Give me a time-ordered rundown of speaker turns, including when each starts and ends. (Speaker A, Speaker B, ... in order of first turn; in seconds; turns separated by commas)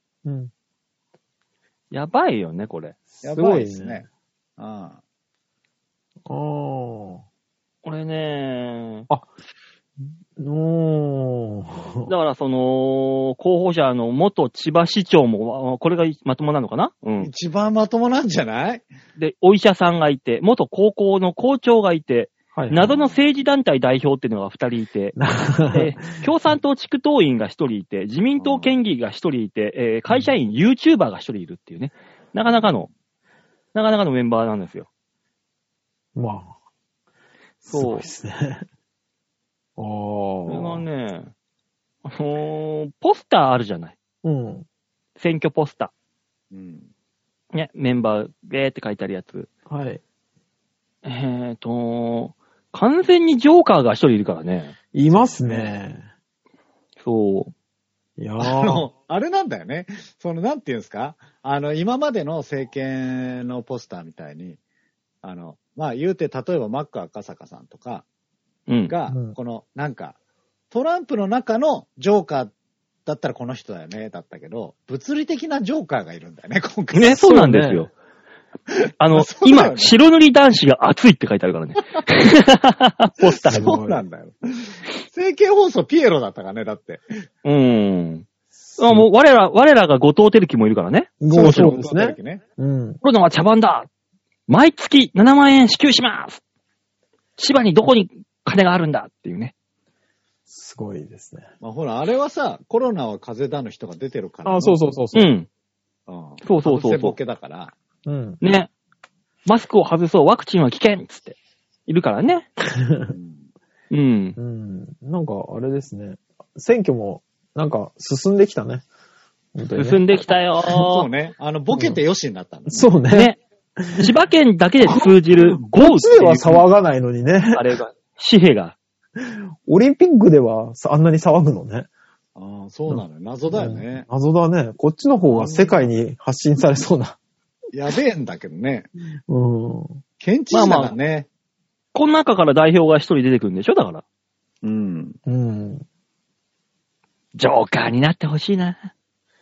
Speaker A: 0.2-0.5, Speaker B: 1.9-3.0, Speaker A: 3.2-4.0, Speaker C: 3.2-4.0, Speaker C: 4.6-5.0, Speaker A: 6.2-7.2, Speaker B: 7.8-9.1, Speaker A: 10.4-12.1, Speaker B: 12.1-17.3, Speaker C: 17.2-18.9, Speaker B: 19.2-32.9, Speaker A: 22.5-22.9, Speaker C: 22.9-23.1, Speaker A: 25.1-26.0, Speaker C: 28.4-28.7, Speaker B: 33.7-34.9, Speaker A: 36.1-36.5, Speaker A: 37.6-38.6, Speaker B: 37.7-38.0, Speaker A: 39.8-40.8, Speaker B: 40.5-41.3, Speaker B: 42.0-43.9, Speaker A: 44.2-44.6, Speaker B: 45.2-45.9, Speaker C: 46.5-46.9, Speaker B: 47.5-49.5, Speaker A: 49.7-50.0, Speaker B: 51.0-54.7, Speaker A: 54.9-56.0, Speaker C: 55.1-55.7, Speaker B: 57.0-57.5, Speaker A: 58.2-58.9, Speaker C: 58.4-64.6, Speaker C: 65.2-68.0, Speaker B: 68.7-68.9, Speaker C: 68.9-70.2, Speaker A: 69.1-69.3, Speaker C: 70.7-72.5, Speaker C: 73.0-77.2, Speaker B: 76.9-77.9, Speaker A: 77.2-77.9, Speaker B: 79.0-83.7, Speaker C: 79.1-80.0, Speaker A: 83.4-84.0, Speaker C: 83.5-87.1, Speaker B: 87.4-88.2, Speaker A: 88.7-89.0, Speaker B: 88.8-91.7, Speaker A: 91.2-93.0, Speaker C: 91.3-92.4, Speaker B: 93.0-93.9, Speaker B: 94.5-96.4, Speaker B: 97.4-99.5, Speaker A: 100.5-101.5, Speaker C: 101.6-104.8, Speaker A: 104.5-105.3, Speaker B: 105.1-105.5, Speaker C: 106.1-107.7, Speaker B: 106.4-107.2, Speaker A: 108.0-108.4, Speaker B: 108.4-108.7, Speaker B: 109.5-111.3, Speaker B: 111.9-112.5, Speaker A: 112.8-113.1, Speaker C: 113.0-113.4, Speaker B: 113.9-114.4, Speaker A: 114.4-118.8, Speaker A: 119.5-120.0, Speaker B: 119.8-121.1, Speaker C: 120.7-123.0, Speaker A: 121.7-122.0, Speaker A: 122.7-124.1, Speaker B: 123.1-123.4, Speaker B: 124.0-126.6, Speaker A: 124.8-127.6, Speaker B: 127.5-128.8, Speaker A: 129.2-131.9, Speaker C: 132.3-134.1, Speaker A: 132.9-137.2, Speaker C: 135.2-135.9, Speaker C: 137.7-138.9, Speaker A: 139.3-140.0, Speaker C: 140.2-141.3, Speaker B: 140.5-140.9, Speaker B: 141.9-144.0, Speaker C: 144.6-145.2, Speaker A: 145.2-145.8, Speaker B: 147.3-148.8